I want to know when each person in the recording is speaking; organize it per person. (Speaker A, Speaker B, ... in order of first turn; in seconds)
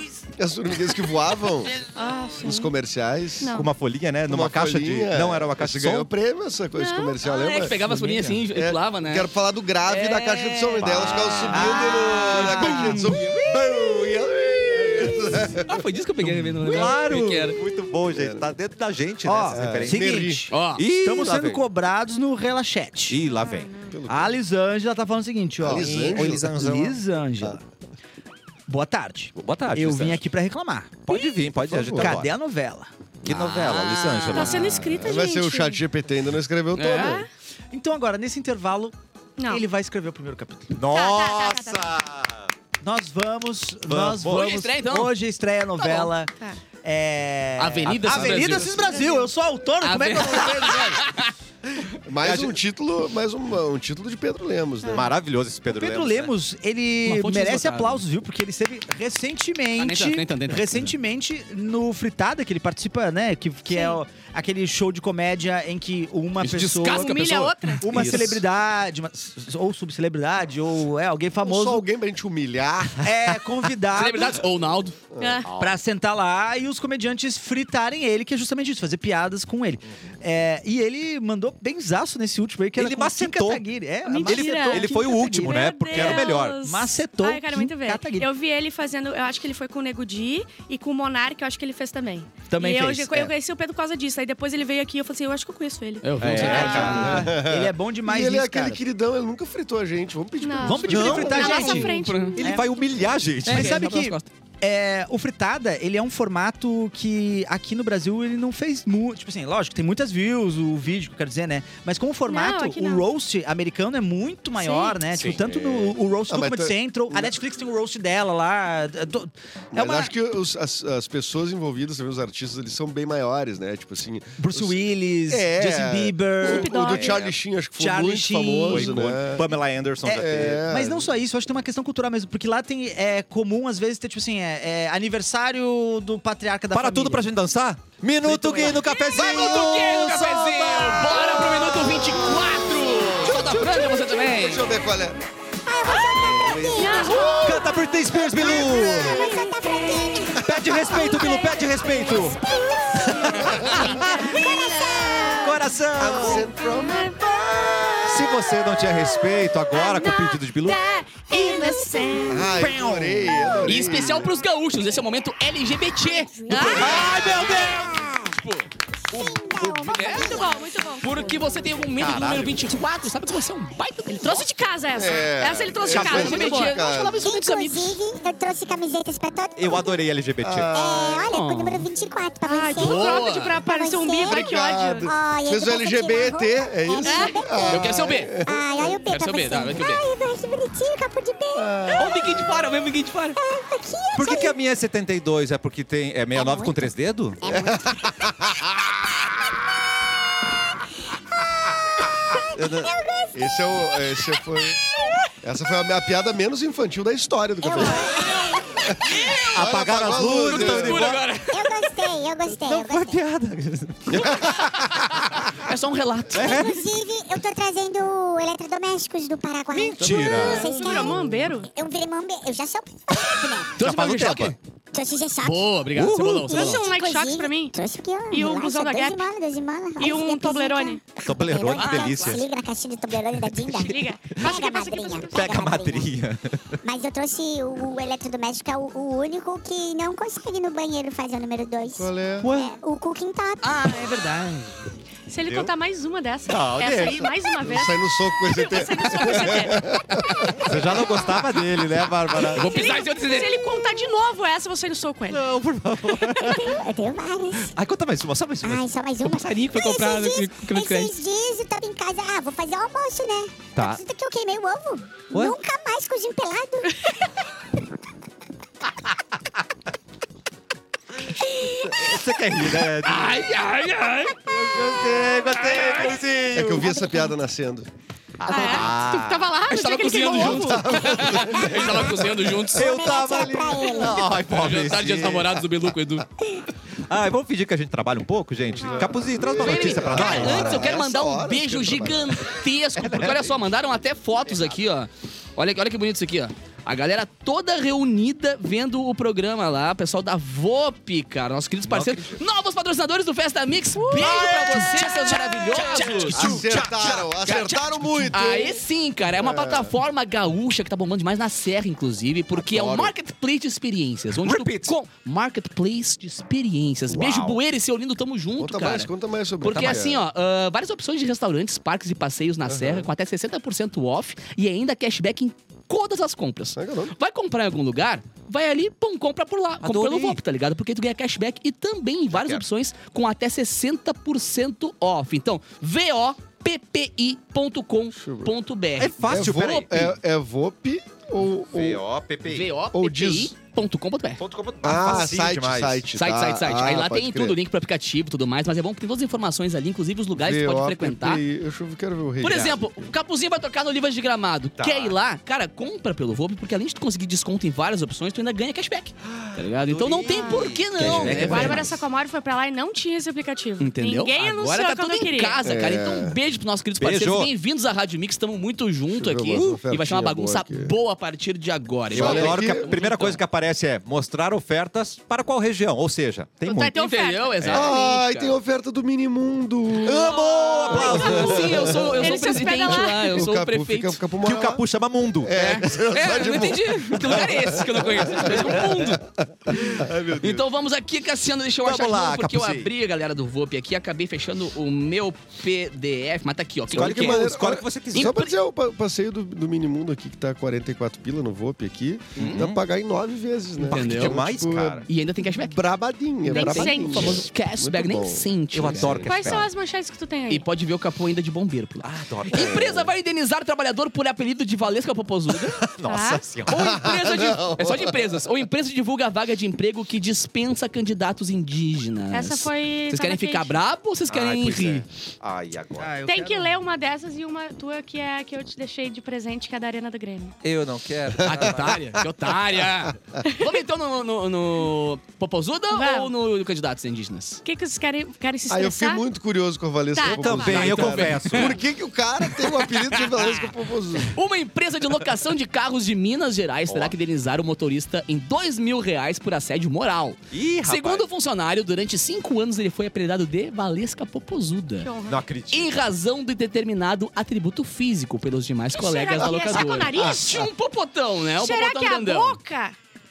Speaker A: 0.3-1.8, 2.4-3.5, 4.3-7.8, 8.5-15.8, 18.1-18.4, 19.5-20.5, 23.9-24.4, 25.6-26.5, 31.7-32.2, 35.0-37.2, 52.1-55.1, 71.4-73.1, 75.2-75.5, 96.5-101.9, 116.3-117.3, 119.7-124.8, 125.3-129.5, 130.1-131.1, 140.9-145.2, 146.0-147.6, 153.4-154.0, 155.9-158.4, 162.3-164.3, 174.9-177.2, 180.4-181.3, 184.2-189.0, 191.6-192.6, 197.5-198.3, 203.3-204.8, 205.4-211.1, 220.0-221.4, 241.9-242.5, 247.6-250.7, 275.1-277.9, 280.2-282.3, 288.8-292.5, 306.3-308.8, 309.3-309.9, 312.7-313.1, 318.6-320.2, 322.7-323.1, 326.8-327.1, 338.2-338.5, 339.3-342.0, 342.9-343.5, 344.8-347.6, 350.3-353.1, 361.0-361.8, 365.6-366.4, 369.1-370.9, 372.1-373.0, 377.7-382.2, 382.9-384.8, 385.4-390.6, 396.9-409.2, 416.7-418.3, 431.4-431.9, 438.7-444.4, 459.4-460.2
Speaker B: 1.9-2.7, 3.4-3.7, 6.8-7.2, 23.4-23.9, 34.3-35.8, 37.0-37.3, 40.9-41.9, 48.6-49.3, 54.8-55.1, 63.7-64.0, 66.8-67.9, 75.2-75.5, 84.1-96.8, 100.4-102.5, 112.3-113.1, 114.6-115.0, 126.4-127.2, 138.3-138.9, 146.8-151.7, 152.3-157.5, 158.2-162.5, 166.5-167.2, 169.9-171.4, 174.1-176.8, 182.4-185.1, 187.1-187.4, 220.5-221.7, 226.4-227.7, 228.3-229.3, 230.0-231.0, 233.7-235.5, 245.3-249.9, 252.6-255.5, 256.2-256.6, 278.5-281.2, 288.8-289.2, 304.0-306.0, 360.3-365.6, 376.6-377.7, 380.1-381.6, 382.2-383.5, 406.4-407.5, 409.2-410.6, 416.1-416.5, 422.3-423.8, 426.3-430.6, 433.4-433.8, 435.9-436.3, 437.6-439.2, 440.1-441.1, 455.0-455.4, 458.9-460.7, 461.6-462.9
Speaker C: 3.5-6.1, 10.8-11.9, 16.6-21.6, 23.1-23.7, 25.7-27.0, 29.4-30.2, 31.1-32.3, 33.2-34.8, 40.7-42.5, 43.9-44.5, 52.2-52.6, 54.9-56.3, 67.9-68.4, 75.5-75.8, 82.8-83.7, 84.2-86.6, 96.2-97.2, 100.9-101.6, 102.4-103.8, 115.1-115.8, 126.9-127.4, 128.7-130.7, 136.7-140.9, 147.4-149.3, 150.4-152.4, 153.0-154.3, 155.4-156.5, 158.1-160.8, 162.6-163.3, 166.8-168.0, 172.0-172.6, 179.6-180.8, 194.2-197.4, 202.6-202.9, 209.5-211.3, 212.6-215.4, 216.3-216.8, 219.7-220.7, 223.8-224.6, 231.2-232.5, 235.3-236.7, 245.4-245.7, 246.5-247.3, 250.6-252.7, 255.3-256.7, 257.6-258.9, 263.8-264.0, 271.8-273.5, 274.5-277.1, 278.4-279.5, 282.7-285.7, 287.1-290.9, 292.9-293.6, 301.9-302.4, 305.8-307.3, 314.4-315.0, 317.1-317.6, 319.6-320.0, 329.8-330.4, 332.3-332.6, 339.0-340.1, 341.7-342.7, 344.4-346.1, 354.8-355.2, 359.3-362.0, 367.0-367.5, 372.1-377.0, 377.6-378.0, 379.9-381.9, 384.4-385.6, 391.9-392.9, 396.9-398.4, 402.4-402.8, 403.8-405.1, 408.7-409.7, 412.0-413.1, 415.8-416.8, 424.3-426.1, 430.6-432.0, 440.3-441.8, 446.9-447.1, 450.5-451.3, 455.3-455.9
Speaker D: 7.2-9.3, 9.8-11.2, 11.9-13.5, 15.7-17.6, 20.5-20.9, 33.2-35.1, 36.7-37.3, 44.2-45.1, 45.8-46.1, 47.6-49.0, 49.8-51.3, 57.0-58.0, 59.8-60.9, 66.4-68.4, 73.9-75.0, 96.0-97.2, 101.5-102.4, 103.5-104.3, 139.1-144.7, 163.7-167.6, 168.3-174.5, 175.9-178.0, 181.3-181.9, 182.7-183.6, 187.7-188.3, 189.1-190.0, 192.0-193.4, 209.2-209.6, 210.3-212.1, 215.4-216.8, 223.8-224.6, 225.4-226.9, 231.7-232.4, 243.6-244.8, 252.4-253.6, 259.2-261.1, 273.0-274.5, 279.7-283.1, 284.5-286.3, 289.5-319.1, 319.6-339.7, 342.5-344.4, 346.1-351.4, 352.4-362.0, 363.8-373.4, 376.9-378.6, 380.9-384.2, 385.5-389.2, 390.0-397.5, 398.1-398.5, 403.8-404.4, 405.1-405.8, 406.4-409.6, 410.5-415.8, 416.7-425.1, 431.4-437.6, 440.7-441.8, 442.6-443.7, 444.3-455.1, 455.7-462.6
Speaker E: 7.9-8.4, 11.5-13.5, 19.2-23.2, 24.1-27.6, 28.7-31.0, 31.9-32.9, 37.7-39.0, 39.5-40.8, 42.8-46.3, 46.8-51.1, 55.7-67.1, 67.8-71.8, 73.0-74.4, 75.6-88.3, 92.5-93.3, 96.4-98.8, 100.6-102.7, 103.5-120.1, 124.4-126.8, 127.8-129.0, 130.0-137.3, 242.4-242.7, 426.0-426.8
Speaker F: 143.7-144.0, 145.7-147.6, 148.2-155.6, 161.3-161.9, 163.3-163.6, 166.2-168.4, 169.1-171.6, 177.2-180.0, 180.7-192.5, 193.4-194.5, 196.3-196.9, 197.4-198.4, 202.0-204.2, 207.6-208.8, 211.5-213.2, 216.3-223.8, 224.9-236.1, 236.8-244.0, 256.4-257.7, 258.6-267.1, 282.7-284.4